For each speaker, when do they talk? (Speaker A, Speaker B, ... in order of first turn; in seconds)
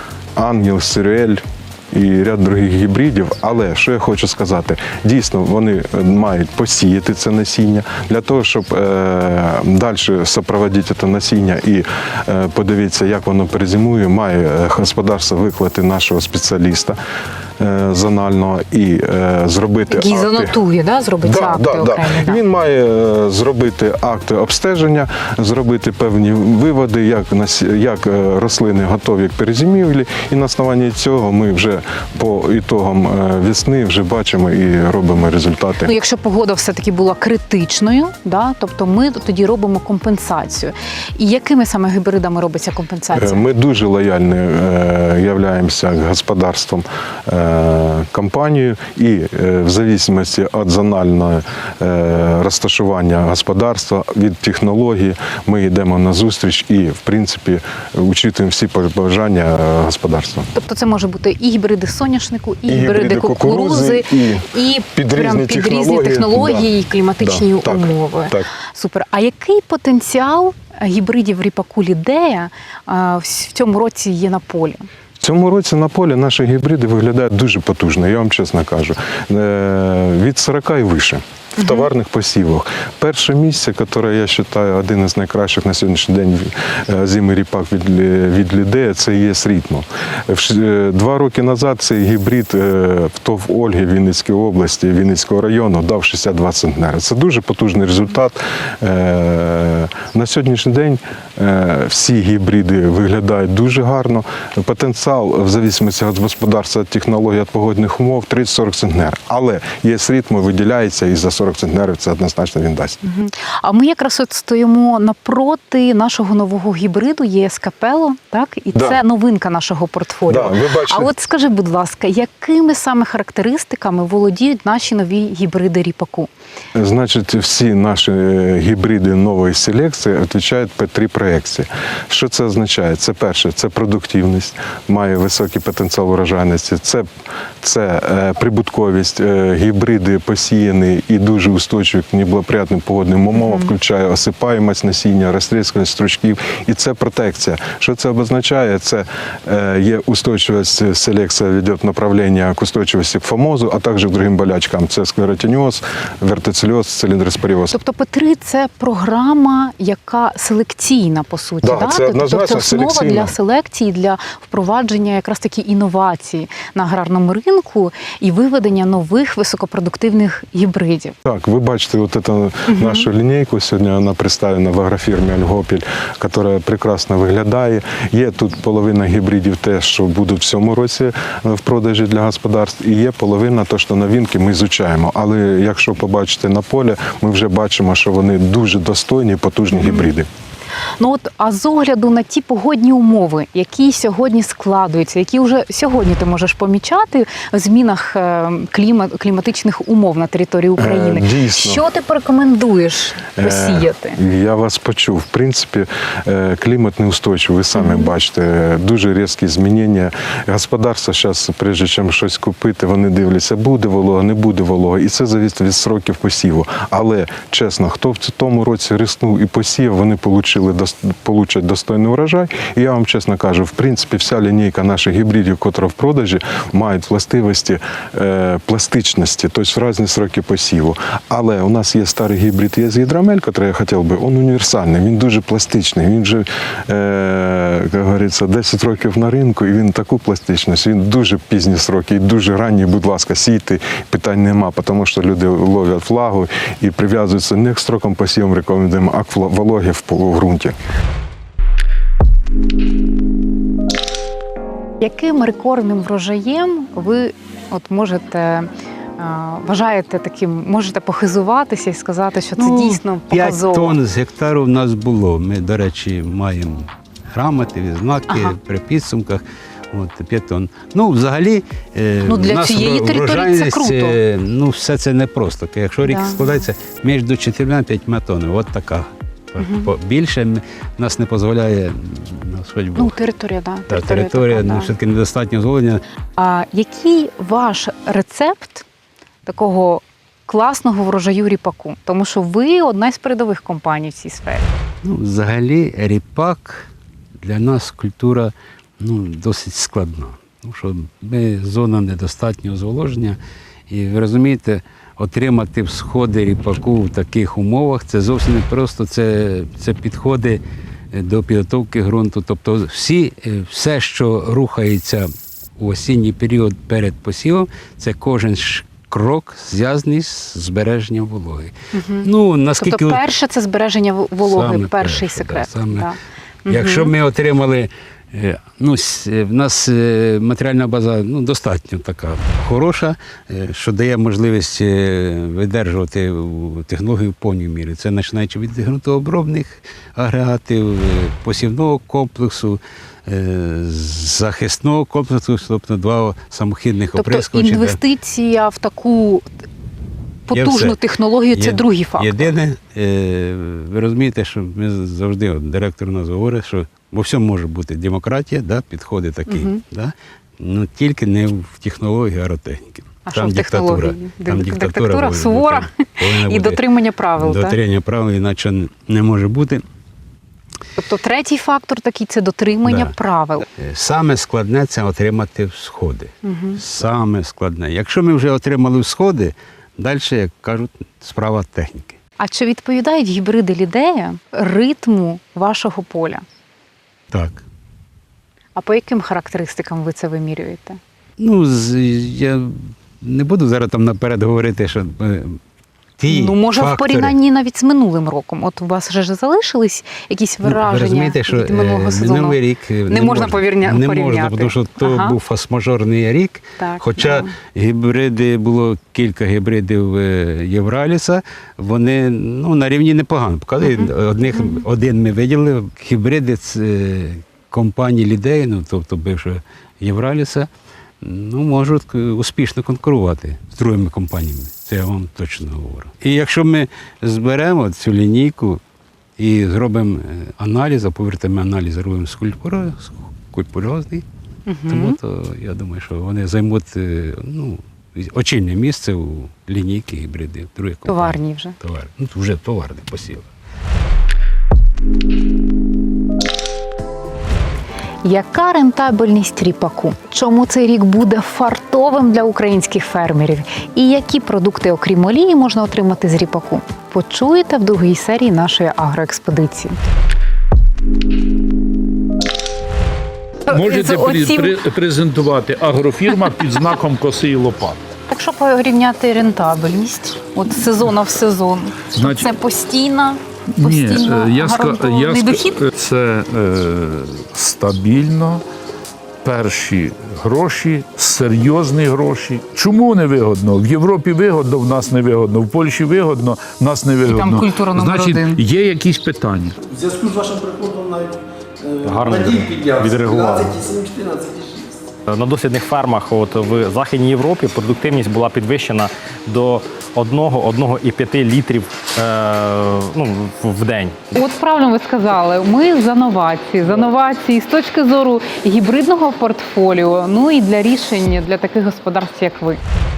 Speaker A: 0.4-1.4, 1.9-17.0, 17.6-20.6, 21.2-35.9, 43.1-60.5, 62.7-66.7, 67.2-68.5, 75.2-113.0, 118.8-119.0, 120.3-121.1, 126.8-137.1, 137.6-157.8, 161.6-163.3, 171.2-190.3, 200.8-201.8, 203.4-250.8
Speaker B: 19.9-22.4, 35.8-43.4, 60.5-74.8, 81.6-81.9, 113.0-126.3, 143.4-143.7, 157.7-171.2, 172.7-173.1, 189.7-190.1, 191.0-204.2, 207.8-208.1, 255.0-264.0, 268.3-268.6, 272.2-274.2, 276.0-276.5, 279.6-279.9, 282.9-284.9, 286.4-288.9, 289.4-294.7, 321.9-327.1, 347.1-349.4, 350.5-352.5, 359.5-359.8, 363.3-367.8, 371.0-373.7, 376.4-376.8, 382.4-386.4, 388.8-391.0, 396.3-405.4, 406.8-407.5, 413.8-414.1, 434.7-435.2, 441.1-441.8, 448.2-460.0, 463.7-464.8, 468.3-475.8, 487.3-488.6, 504.3-512.8
Speaker C: 262.6-283.2, 283.9-286.0, 295.0-296.9, 297.4-303.4, 303.9-310.6, 311.1-321.7, 322.2-323.2, 324.4-326.1, 326.7-348.0, 350.5-351.0, 351.5-366.8, 367.4-369.8, 372.9-373.1, 373.8-382.2, 387.3-387.6, 391.4-395.6, 396.2-397.4, 400.6-420.7, 421.2-428.8, 429.4-434.2, 434.9-443.5
Speaker D: 463.7-468.0, 472.1-472.5, 473.8-478.6, 479.4-489.8
Speaker E: 489.9-495.0
Speaker F: 492.0-493.8, 495.3-504.2